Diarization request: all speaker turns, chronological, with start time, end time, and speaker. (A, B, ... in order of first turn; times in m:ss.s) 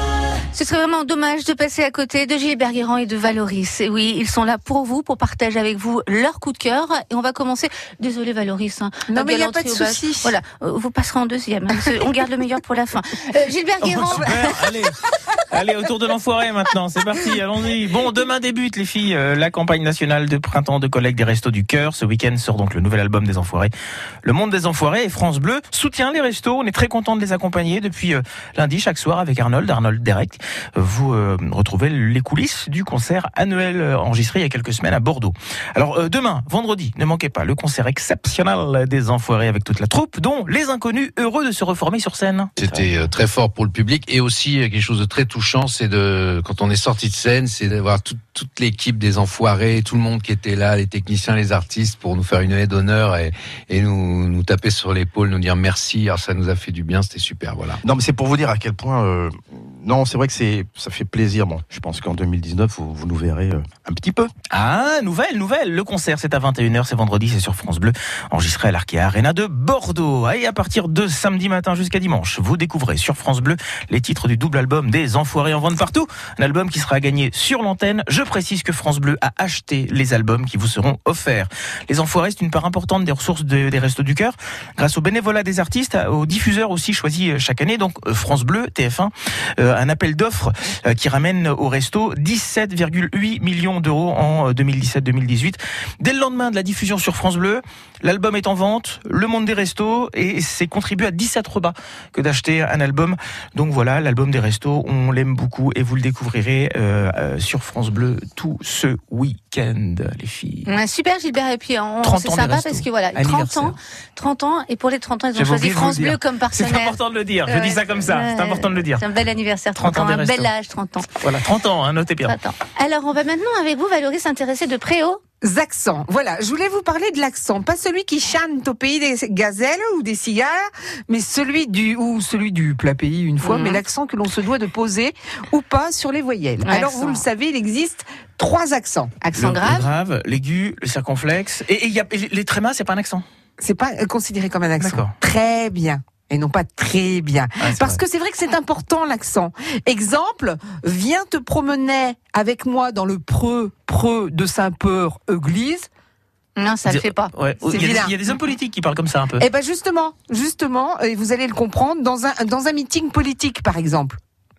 0:00.5-0:14.6 A
0:09.1-0:10.4 B
0:13.8-0:15.0 C
0:15.5-0:23.7 C
0:24.2-0:42.6 C
0:42.6-0:57.8 D
0:57.8-1:04.3 E
1:04.5-1:50.7 C
1:50.7-2:01.1 A
1:52.0-1:53.8 C
1:55.4-1:59.0 C
1:59.8-2:00.5 C
2:01.2-2:02.4 C
2:02.2-2:05.2 A
2:05.4-2:19.1 B
2:13.4-2:13.8 A
2:16.6-2:17.2 A
2:19.2-2:19.9 A
2:19.3-2:23.2 C
2:23.6-2:35.9 B
2:24.8-2:25.1 C
2:27.6-2:28.0 C
2:36.6-2:37.3 A
2:36.9-2:39.4 C
2:37.6-2:38.2 B
2:39.4-2:44.2 B